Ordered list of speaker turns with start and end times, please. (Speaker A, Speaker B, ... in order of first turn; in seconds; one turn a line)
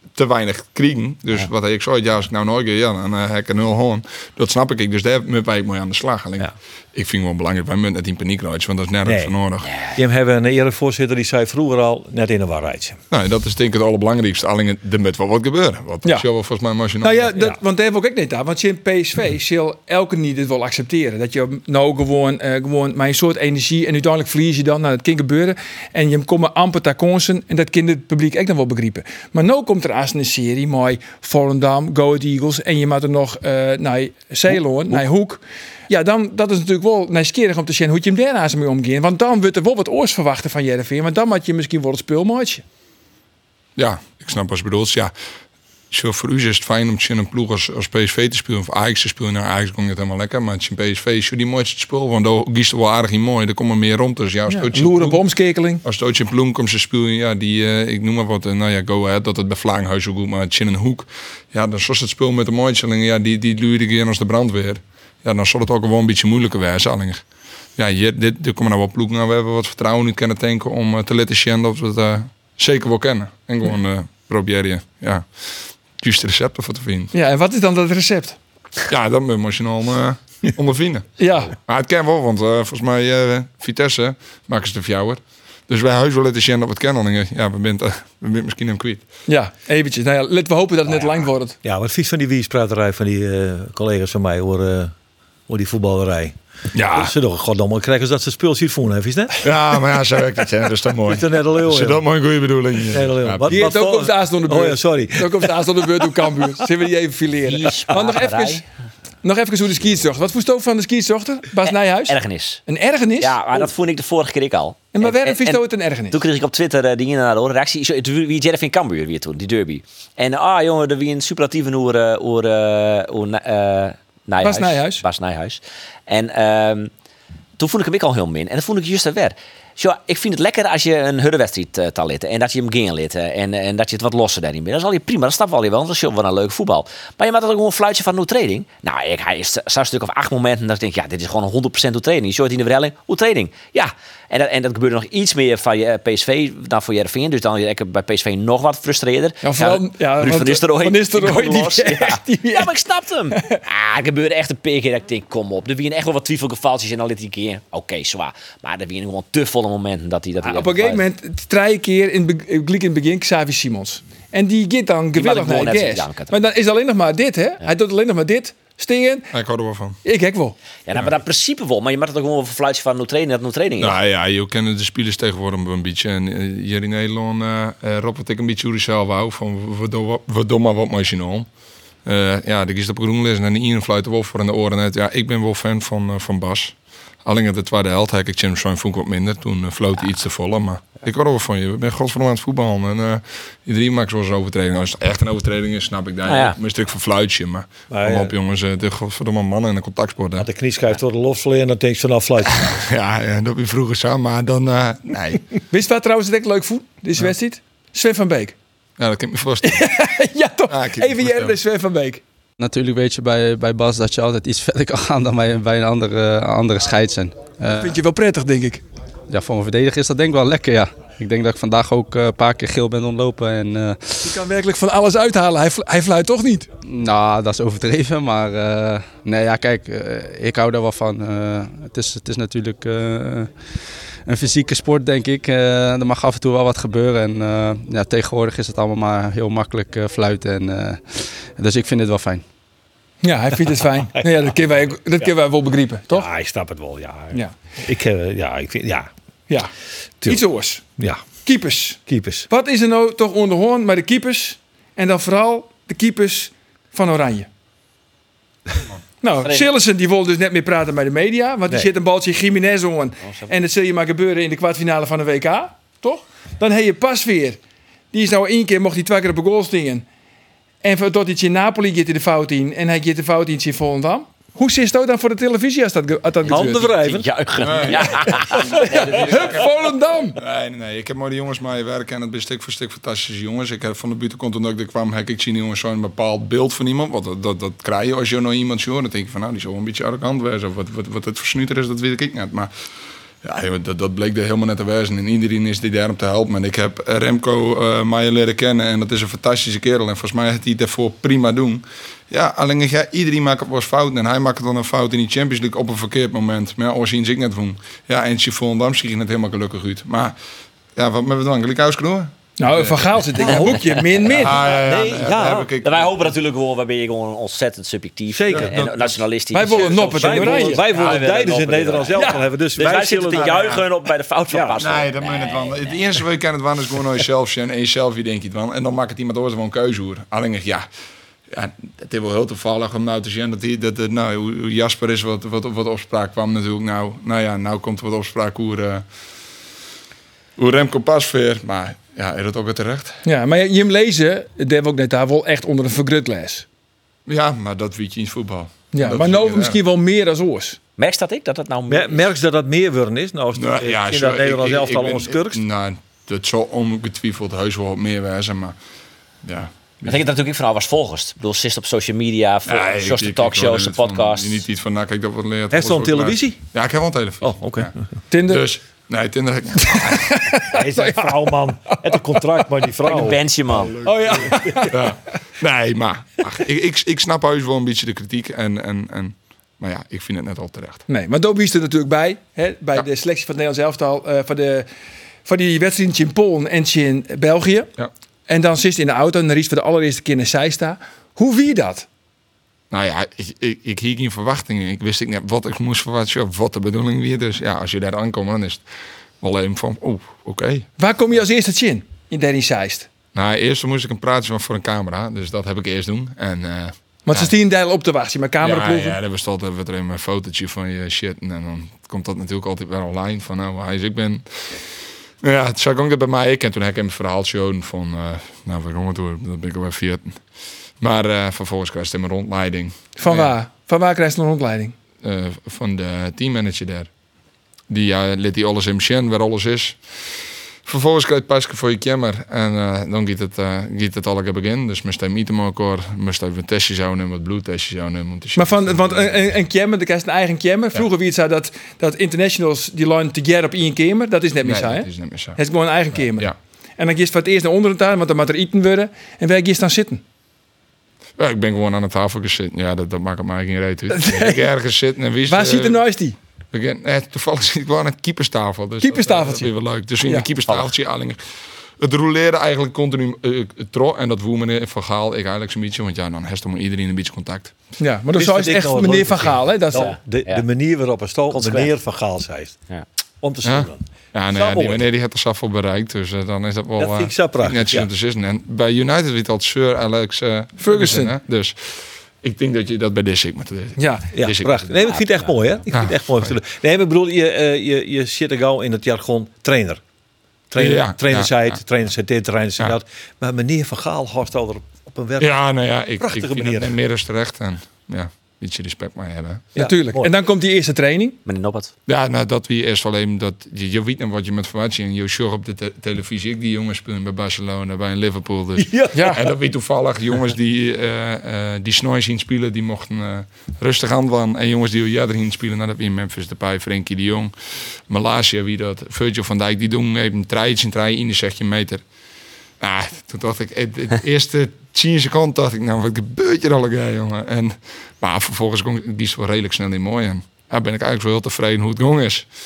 Speaker A: 0.1-9.7
Speaker B: 9.1-9.3
Speaker C: 9.7-10.0
Speaker B: 9.9-13.0
Speaker A: 13.1-17.3
Speaker D: 17.0-42.6
Speaker A: 43.8-45.1
Speaker A: 45.9-55.2
Speaker D: 54.5-55.8
Speaker A: 55.8-67.2
Speaker A: 67.8-75.3
Speaker A: 76.0-77.1
Speaker D: 77.1-78.4
Speaker A: 78.9-89.0
Speaker D: 81.2-81.5
Speaker D: 89.3-91.6
Speaker B: 91.6-94.9
Speaker B: 95.5-99.5
Speaker A: 96.7-97.1
Speaker A: 99.4-103.6
Speaker B: 101.1-102.0
Speaker B: 102.9-106.4
Speaker D: 103.5-108.6
Speaker C: 107.4-108.6
Speaker D: 109.2-113.7
Speaker C: 111.6-112.6
Speaker C: 113.2-126.9
Speaker D: 114.9-116.2
Speaker D: 124.4-125.0
Speaker C: 127.6-161.0
Speaker D: 149.4-152.8
Speaker D: 153.3-153.6
Speaker D: 160.4-169.3
Speaker C: 165.2-166.3
Speaker A: 169.3-170.0
Speaker D: 170.1-170.6
Speaker C: 170.9-173.9
Speaker A: 173.8-181.5
Speaker A: 182.1-200.5
Speaker C: 196.2-196.6
Speaker B: 197.9-198.4
Speaker B: 200.4-202.8
Speaker A: 202.5-205.4
Speaker D: 205.7-208.6
Speaker A: 209.0-210.0
Speaker D: 209.6-212.2
Speaker A: 210.7-211.6
Speaker E: 212.6-218.0
Speaker D: 217.7-218.8
Speaker E: 219.3-224.2
Speaker D: 224.2-226.7
Speaker E: 226.9-233.5
Speaker E: 234.3-242.4
Speaker D: 243.2-246.3
Speaker B: 246.1-249.1
Speaker D: 250.2-250.8
Speaker B: 251.0-251.2
Speaker D: 251.4-257.5
Speaker B: 252.1-252.5
Speaker D: 259.2-267.6
Speaker C: 259.4-259.7
Speaker D: 268.1-270.1
Speaker D: 270.8-276.9
Speaker B: 276.4-277.3
Speaker C: 276.5-279.6
Speaker A: 277.6-279.7
Speaker D: 278.4-280.4
Speaker A: 280.4-292.7
Speaker A: 293.4-310.4
Speaker A: 310.9-313.0
Speaker D: 312.6-314.6
Speaker B: 313.4-313.8
Speaker C: 313.5-326.0
Speaker A: 314.4-316.3
Speaker B: 314.5-315.7
Speaker B: 318.3-318.9
Speaker A: 318.5-319.2
Speaker D: 319.5-320.8
Speaker B: 319.9-323.8
Speaker D: 322.1-322.4
Speaker A: 323.3-323.9
Speaker B: 324.5-324.8
Speaker A: 324.8-330.9
Speaker A: 331.5-339.1
Speaker A: 340.6-343.2
Speaker D: 343.2-346.6
Speaker A: 347.3-349.8
Speaker D: 348.9-350.8
Speaker C: 351.0-352.3
Speaker B: 351.9-355.6
Speaker A: 353.6-358.8
Speaker A: 359.4-360.2
Speaker C: 360.1-364.6
Speaker A: 362.7-367.9
Speaker B: 365.7-366.6
Speaker B: 367.4-368.0
Speaker D: 368.3-368.7
Speaker A: 368.5-370.4
Speaker D: 369.8-372.3
Speaker B: 370.7-373.4
Speaker C: 373.1-374.0
Speaker D: 374.0-375.0
Speaker B: 374.4-374.8
Speaker A: 374.9-381.0
Speaker D: 381.1-384.9
Speaker D: 385.5-387.9
Speaker D: 388.5-392.1
Speaker A: 392.9-398.9
Speaker A: 399.4-400.9
Speaker D: 401.0-403.1
Speaker A: 403.3-407.5
Speaker D: 407.2-409.2
Speaker A: 408.6-414.7
Speaker A: 415.4-420.4
Speaker A: 421.0-423.6
Speaker D: 423.2-424.9
Speaker A: 425.2-427.1
Speaker A: 427.9-430.0
Speaker A: 430.9-439.3
Speaker D: 438.6-450.2
Speaker A: 444.6-445.6
Speaker A: 446.1-446.5
Speaker A: 451.4-456.0
Speaker D: 454.1-454.7
Speaker D: 455.5-456.4
Speaker A: 456.7-461.4
Speaker D: 459.0-459.7
Speaker C: 460.7-460.9
Speaker A: 462.0-467.7
Speaker D: 468.0-470.1
Speaker B: 468.4-472.8
Speaker C: 470.0-470.6
Speaker C: 471.5-471.9
Speaker B: 473.4-475.0
Speaker A: 473.6-485.1
Speaker B: 477.0-478.1
Speaker D: 480.8-481.4
Speaker D: 484.0-484.3
Speaker B: 484.3-490.0
Speaker C: 485.1-485.5
Speaker A: 485.9-486.6
Speaker B: 490.7-495.6
Speaker A: 490.8-491.8
Speaker A: 495.4-499.7
Speaker B: 496.2-497.0
Speaker B: 499.8-500.3
Speaker D: 499.8-501.4
Speaker C: 501.5-501.9
Speaker A: 502.1-517.5
Speaker B: 508.8-509.4
Speaker D: 509.1-509.4
Speaker A: 518.1-522.0
Speaker A: 522.8-532.5